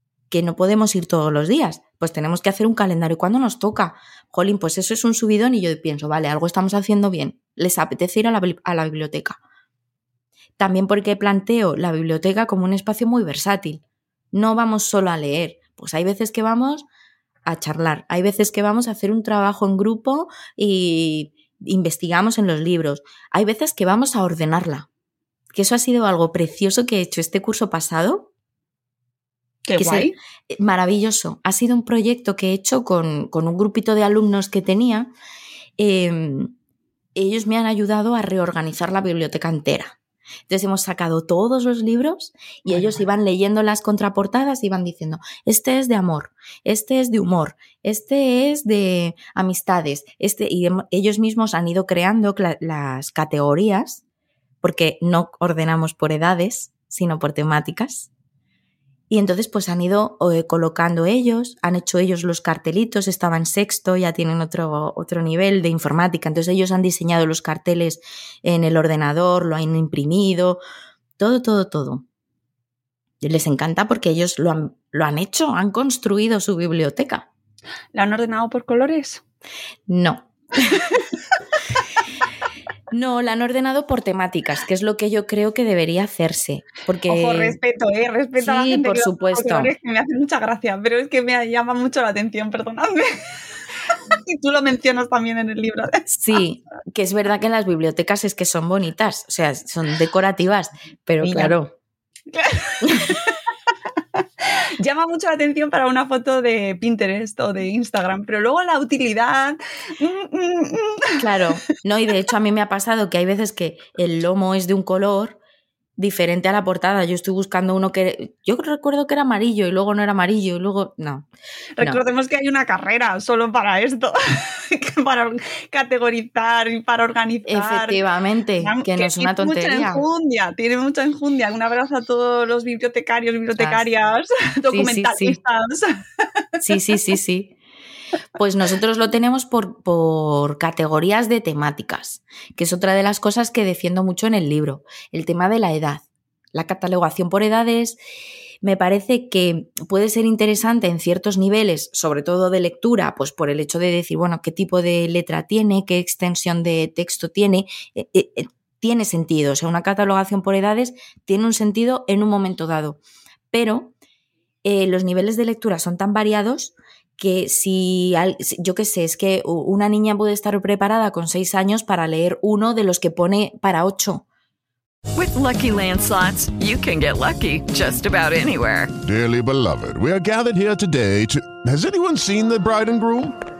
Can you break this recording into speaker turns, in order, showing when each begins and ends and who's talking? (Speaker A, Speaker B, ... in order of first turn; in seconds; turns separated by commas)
Speaker A: 0.3-9.4, Speaker A: 10.6-16.9, Speaker A: 17.4-24.9, Speaker A: 25.5-28.3, Speaker B: 29.6-30.1, Speaker A: 29.8-35.1, Speaker A: 35.8-36.5, Speaker A: 37.1-40.0, Speaker A: 40.5-54.0, Speaker A: 54.6-58.1, Speaker A: 59.1-70.6, Speaker A: 71.2-72.0, Speaker A: 73.2-77.3, Speaker B: 77.9-79.2, Speaker A: 79.9-80.8, Speaker A: 82.9-87.6, Speaker B: 87.1-93.1, Speaker A: 88.4-89.7, Speaker B: 93.9-96.1, Speaker A: 96.1-101.7, Speaker B: 101.2-101.5, Speaker B: 102.3-103.3, Speaker A: 102.9-103.1, Speaker B: 104.8-111.2, Speaker A: 111.2-115.4, Speaker A: 116.0-121.3, Speaker B: 121.8-128.0, Speaker A: 127.5-130.0, Speaker B: 128.6-136.0, Speaker A: 133.6-133.8, Speaker A: 134.7-135.4, Speaker A: 136.6-137.6, Speaker A: 138.3-148.0, Speaker A: 148.6-163.0, Speaker A: 163.5-163.9, Speaker A: 164.6-174.2, Speaker C: 175.1-178.9, Speaker D: 179.0-183.3